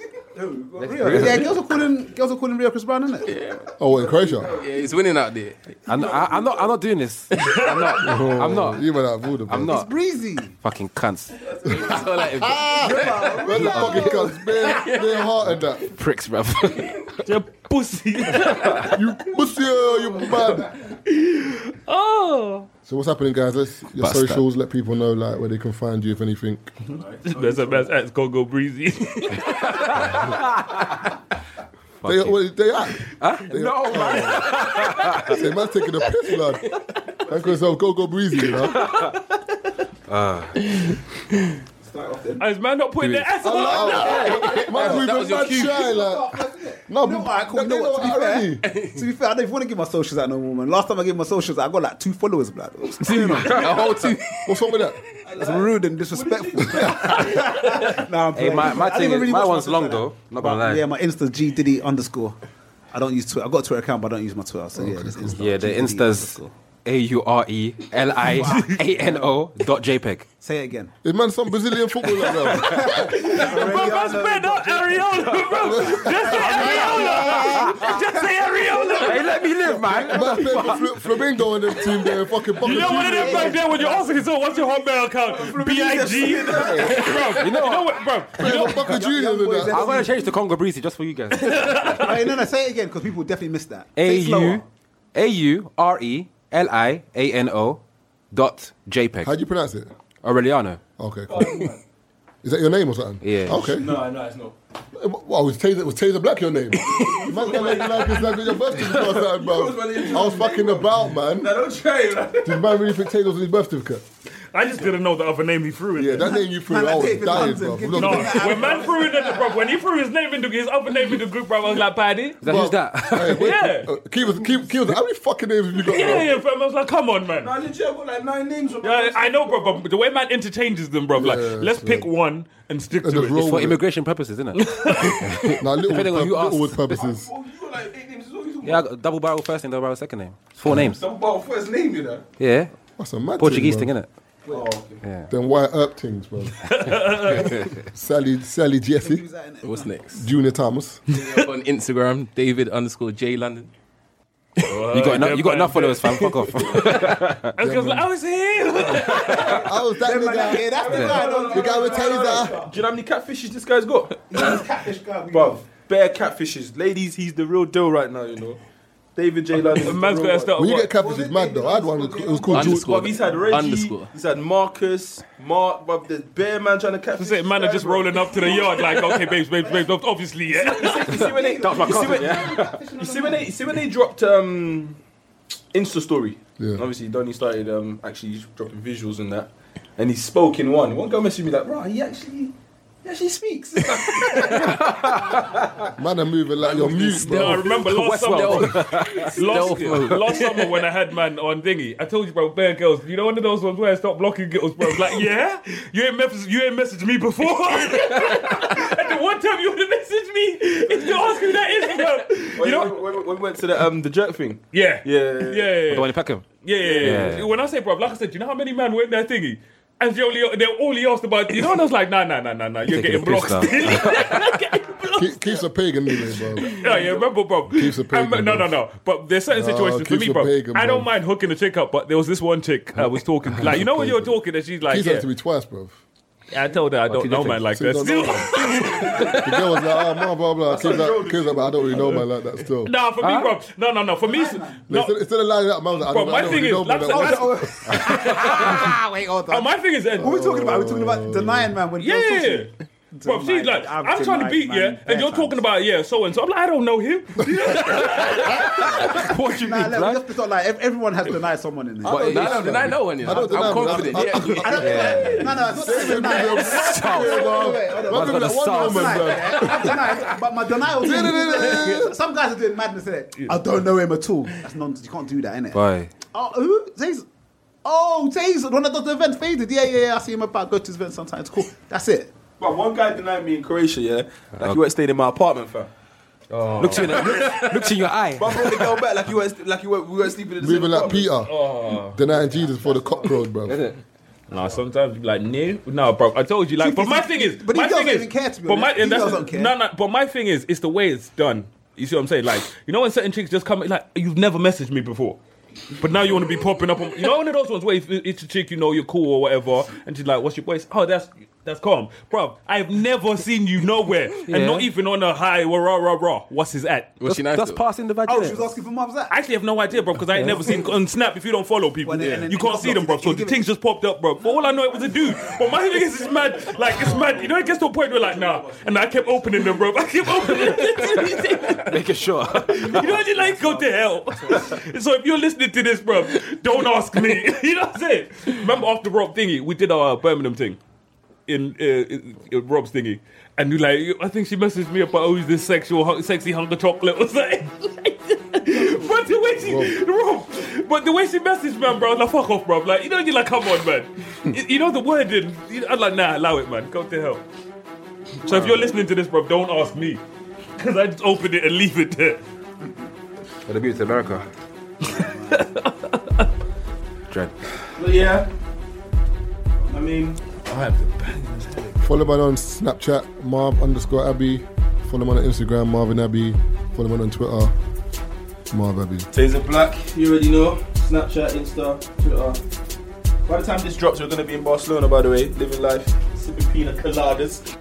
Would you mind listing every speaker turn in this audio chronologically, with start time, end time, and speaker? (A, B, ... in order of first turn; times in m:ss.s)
0:00.4-0:03.4 A
0:00.9-0:01.4 B
0:01.0-0:01.5 C
0:03.2-0:03.7 D
0:03.8-0:04.5 E
0:04.3-0:05.7 D
0:05.9-0:06.8 B
0:05.9-0:08.8 C
0:07.3-0:08.0 F
0:08.0-0:09.8 E
0:09.5-0:09.9 C
0:09.6-0:10.6 A
0:10.5-0:11.4 C
0:11.5-0:12.3 B
0:11.6-0:13.6 D
0:12.4-0:12.8 E
0:12.7-0:14.4 A
0:13.2-0:13.4 B
0:13.4-0:15.9 E
0:13.6-0:14.1 C
0:14.6-0:15.2 D
0:15.8-0:17.2 C
0:17.2-0:19.0 F
0:18.8-0:20.7 E
0:20.9-0:22.7 F
0:22.9-0:26.7 E
0:24.0-0:24.4 D
0:26.9-0:27.9 B
0:27.2-0:30.1 F
0:29.6-0:30.9 C
0:32.0-0:32.5 C
0:32.0-0:34.5 E
0:33.2-0:35.3 C
0:35.2-0:36.6 E
0:37.3-0:39.0 E
0:40.1-0:40.6 C
0:41.8-0:42.5 A
0:42.4-0:44.8 F
0:43.0-0:43.3 C
0:43.4-0:46.4 E
0:43.7-0:45.0 A
0:44.1-0:45.9 D
0:45.7-0:54.0 A
0:46.9-0:48.6 E
0:48.6-0:49.1 D
0:53.0-0:54.4 D
0:54.5-0:55.0 E
0:55.3-1:02.4 A
0:55.3-0:57.9 B
0:58.3-1:00.9 C
1:02.9-1:06.5 A
1:04.8-1:05.4 E
1:05.3-1:10.2 C
1:08.1-1:09.3 A
1:08.4-1:08.8 F
1:10.4-1:10.9 A
1:11.0-1:13.2 E
1:12.4-1:20.7 A
1:12.9-1:19.2 F
1:15.7-1:17.2 E
1:16.5-1:17.8 C
1:19.0-1:20.9 C
1:19.8-1:23.6 E
1:22.6-1:28.9 F
1:22.6-1:24.2 A
1:24.4-1:27.3 B
1:27.1-1:29.0 C
1:28.4-1:29.9 E
1:28.8-1:30.2 A
1:29.6-1:32.0 C
1:31.3-1:32.2 F
1:31.9-1:34.6 A
1:34.0-1:34.6 C
1:35.2-1:37.8 C
1:38.3-1:39.4 C
1:39.2-1:39.9 E
1:40.2-1:40.8 C
1:41.0-1:41.7 E
1:41.3-1:41.8 B
1:42.4-1:44.0 E
1:43.2-1:43.7 C
1:43.7-1:44.6 B
1:45.0-1:51.6 E
1:46.8-1:52.9 B
1:52.4-1:54.0 E
1:54.5-1:56.3 F
1:56.0-1:58.6 E
1:56.6-1:59.6 A
1:57.9-2:02.4 F
1:58.4-1:59.1 B
2:02.4-2:03.5 C
2:02.4-2:06.4 E
2:03.2-2:03.9 F
2:05.8-2:07.5 F
2:07.4-2:09.8 B
2:08.8-2:13.7 F
2:11.2-2:12.1 E
2:13.0-2:13.8 E
2:13.4-2:16.8 C
2:14.6-2:15.6 F
2:15.4-2:17.3 E
2:16.9-2:18.9 B
2:18.6-2:21.0 C
2:20.7-2:22.2 B
2:22.4-2:22.7 C
2:23.0-2:23.9 E
2:23.4-2:24.1 C
2:24.5-2:25.0 B
2:25.0-2:25.3 C
2:25.3-2:26.9 E
2:26.6-2:27.7 F
2:27.9-2:29.2 E
2:29.0-2:29.9 A
2:29.6-2:30.2 D
2:30.1-2:31.0 E
2:31.1-2:31.5 F
2:31.1-2:33.7 D
2:34.6-2:37.0 F
2:34.9-2:37.5 C
2:37.6-2:39.7 F
2:37.6-2:38.1 E
2:39.3-2:39.6 B
2:39.5-2:42.6 E
2:40.0-2:42.7 A
2:40.4-2:44.7 B
2:44.3-2:45.6 A
2:45.3-2:48.6 B
2:49.2-2:50.6 B
2:49.8-2:50.9 F
2:50.6-2:53.0 E
2:51.0-2:52.7 A
2:52.5-2:54.1 D
2:52.5-2:59.1 B
2:57.2-3:01.3 F
2:59.6-2:59.9 A
3:00.5-3:03.5 A
3:00.7-3:05.0 B
3:01.5-3:02.8 C
3:05.7-3:15.2 B
3:06.6-3:06.8 E
3:14.7-3:15.3 D
3:16.0-3:17.8 E
3:17.0-3:33.0 F
3:17.9-3:20.7 D
3:17.9-3:20.4 C
3:32.6-3:35.8 B
3:34.7-3:45.6 F
3:35.9-3:36.4 C
3:36.8-3:37.3 B
3:37.0-3:37.5 C
3:42.9-3:44.3 C
3:45.2-3:46.7 E
3:46.2-3:55.3 F
3:46.8-3:47.3 B
3:47.7-3:48.8 E
3:49.5-3:51.1 E
3:53.6-3:56.0 E
3:56.5-3:59.4 F
3:57.1-3:57.6 C
3:57.3-4:02.9 E
3:59.1-3:59.4 B
4:00.6-4:02.2 B
4:02.8-4:05.2 F
4:03.2-4:03.6 C
4:04.2-4:04.9 A
4:04.9-4:08.1 E
4:06.0-4:10.8 F
4:07.0-4:15.6 A
4:10.2-4:11.8 E
4:12.0-4:12.7 F
4:13.2-4:19.2 F
4:17.7-4:35.8 A
4:19.2-4:20.2 C
4:22.0-4:25.1 D
4:22.1-4:30.3 E
4:24.7-4:25.4 C
4:26.0-4:29.7 C
4:31.0-4:32.2 E
4:35.7-4:36.1 C
4:36.3-4:37.2 A
4:37.8-4:42.3 A
4:42.6-4:45.9 B
4:46.5-4:47.7 F
4:46.8-4:48.9 C
4:48.4-4:51.4 B
4:50.6-4:53.8 E
4:51.5-4:52.2 F
4:52.3-4:53.3 A
4:53.6-4:54.0 C
4:54.5-5:05.4 F
4:56.8-4:59.7 A
5:06.0-5:17.2 F
5:14.5-5:14.9 C
5:17.2-5:17.8 D
5:17.2-5:18.6 C
5:18.3-5:19.3 A
5:19.3-5:40.8 F
5:20.5-5:20.8 A
5:22.0-5:23.6 A
5:24.4-5:26.0 A
5:26.7-5:27.3 A
5:26.7-5:30.3 B
5:30.9-5:31.4 B
5:31.5-5:33.2 C
5:32.6-5:34.8 A
5:41.5-5:57.4 F
5:49.6-5:49.9 E
5:58.4-6:00.2 F
6:00.8-6:02.4 F
6:03.7-6:04.4 C
6:05.0-6:06.5 F
6:07.3-6:07.6 C
6:08.0-6:08.5 B
6:09.9-6:10.4 B
6:10.6-6:12.0 F
6:12.0-6:17.7 E
6:18.7-6:19.3 E
6:19.3-6:22.6 B
6:23.5-6:27.7 B